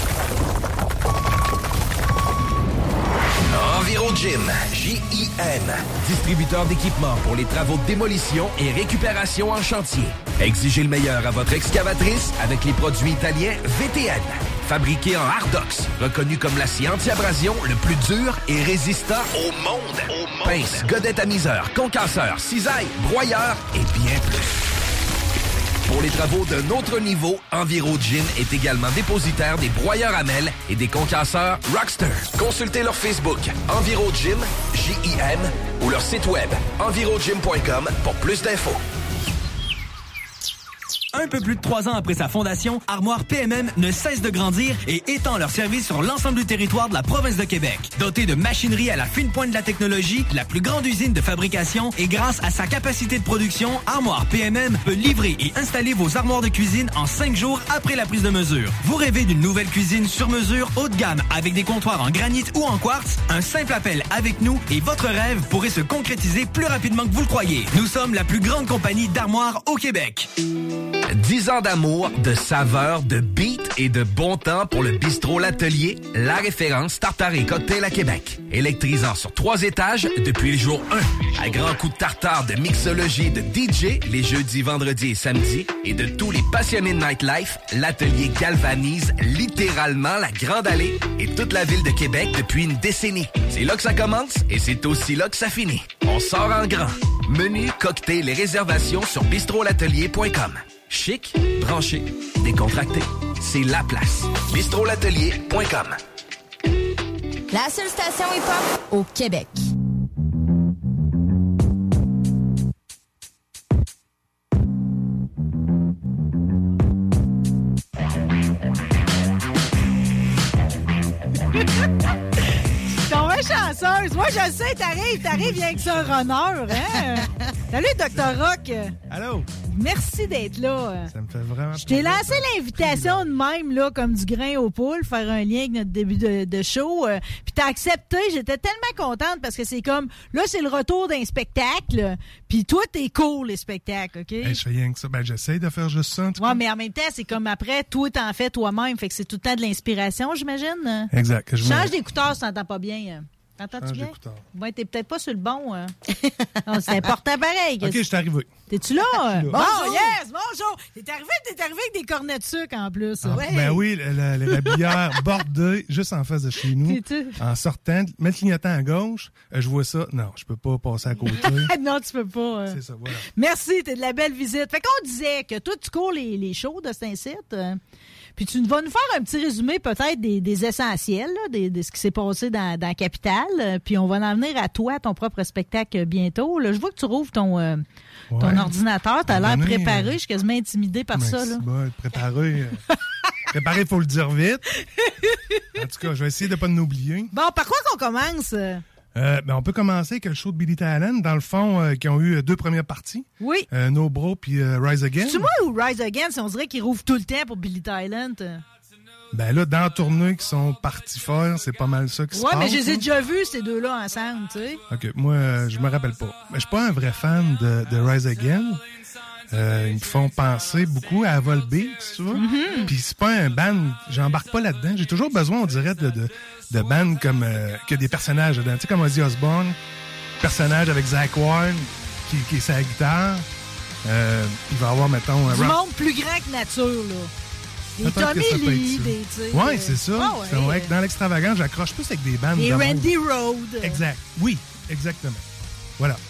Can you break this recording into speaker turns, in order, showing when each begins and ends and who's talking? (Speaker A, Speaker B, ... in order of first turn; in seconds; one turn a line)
Speaker A: 3.5-24.6
Speaker A: 25.9-38.8
Speaker B: 41.1-70.3
Speaker A: 71.1-106.0
Speaker C: 107.5-109.6
Speaker D: 123.0-128.9
Speaker E: 125.2-126.2
Speaker E: 129.1-129.5
Speaker D: 129.7-131.1
Speaker E: 131.1-133.4
Speaker D: 131.7-144.6
Speaker E: 144.4-146.6
Speaker D: 146.4-151.1
Speaker E: 151.1-151.9
Speaker D: 151.6-155.9
Speaker E: 153.8-154.4
Speaker D: 156.7-158.0
Speaker E: 157.8-158.5
Speaker D: 158.7-163.8
Speaker E: 159.0-160.1
Speaker E: 163.2-171.7
Speaker D: 166.8-167.3
Speaker D: 171.3-172.8
Speaker E: 172.7-173.3
Speaker D: 173.3-177.8
Speaker D: 178.3-187.8
Speaker E: 188.3-188.7
Speaker D: 188.4-191.6
Speaker E: 189.3-190.2
Speaker E: 191.1-192.8
Speaker E: 193.5-194.6
Speaker E: 195.8-197.3
Speaker D: 197.3-198.8
Speaker E: 199.1-205.5
Speaker D: 203.4-203.7
Speaker D: 205.2-208.6
Speaker E: 209.3-213.1
Speaker D: 212.3-214.8
Speaker E: 214.9-218.8
Speaker E: 219.5-229.8
Speaker D: 222.3-222.9
Speaker E: 230.4-233.4
Speaker E: 234.1-235.8
Speaker D: 235.5-237.3
Speaker D: 238.0-240.9
Speaker E: 238.0-243.1
Speaker D: 242.6-244.0
Speaker E: 243.8-245.4